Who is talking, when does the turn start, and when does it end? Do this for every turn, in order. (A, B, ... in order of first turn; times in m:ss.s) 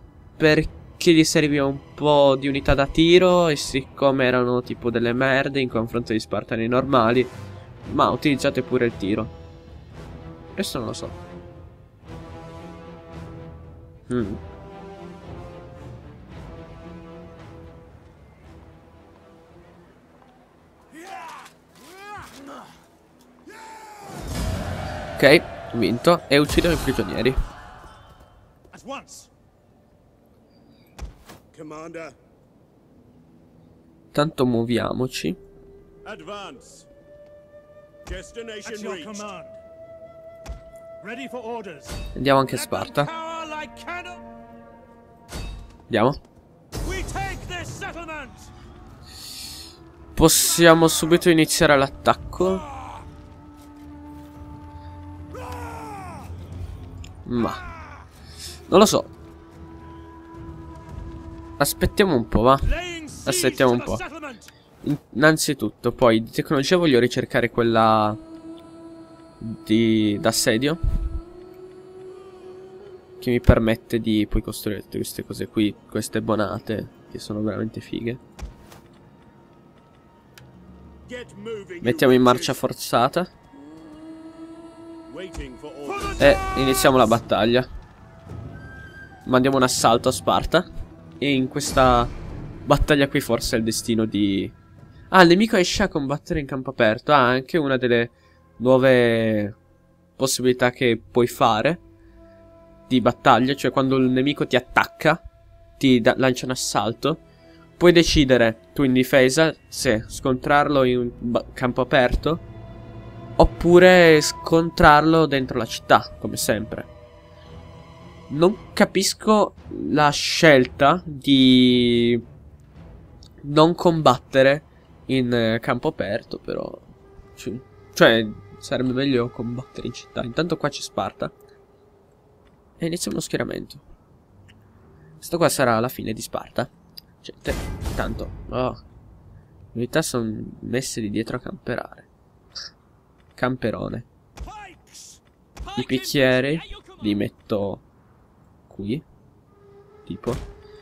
0:00.4-0:07.3 A
0:07.8-0:09.3 A
0:10.5-0:11.2 A
0:14.1-0:14.4 A
0:21.0-0:21.5 B
0:25.2-0:27.4 A
0:28.7-0:29.3 B
0:31.5-0:32.2 C
0:34.1-0:35.4 A
0:36.0-0:36.9 C
0:38.0-0:39.3 C
0:38.6-0:39.6 B
0:41.0-0:44.2 B
0:42.1-0:43.1 A
0:45.9-0:46.2 A
0:46.8-0:48.5 B
0:50.1-0:52.6 A
0:55.4-0:56.3 B
0:57.2-0:57.6 A
0:58.7-0:59.1 A
1:01.6-1:02.7 A
1:02.6-1:04.5 B
1:03.2-1:04.0 A
1:04.8-1:08.2 A
1:09.4-1:10.8 A
1:13.2-1:18.2 A
1:21.0-1:22.6 C
1:21.8-1:23.3 A
1:25.1-1:26.3 C
1:26.0-1:26.4 B
1:26.2-1:27.7 A
1:29.2-1:30.7 A
1:31.2-1:32.1 A
1:32.6-1:34.5 A
1:35.1-1:39.6 A
1:40.2-1:41.8 A
1:42.9-1:45.2 A
1:45.8-1:47.2 A
1:47.8-1:52.4 A
1:53.4-1:56.9 A
1:58.3-2:02.2 A
2:03.4-2:06.8 A
2:07.4-2:11.3 A
2:12.8-2:13.8 A
2:15.2-2:16.7 A
2:17.2-2:18.8 A
2:19.7-2:22.1 A
2:23.4-2:24.1 A
2:24.4-2:27.2 B
2:25.7-2:27.8 A
2:28.7-2:29.0 A
2:30.0-2:30.4 A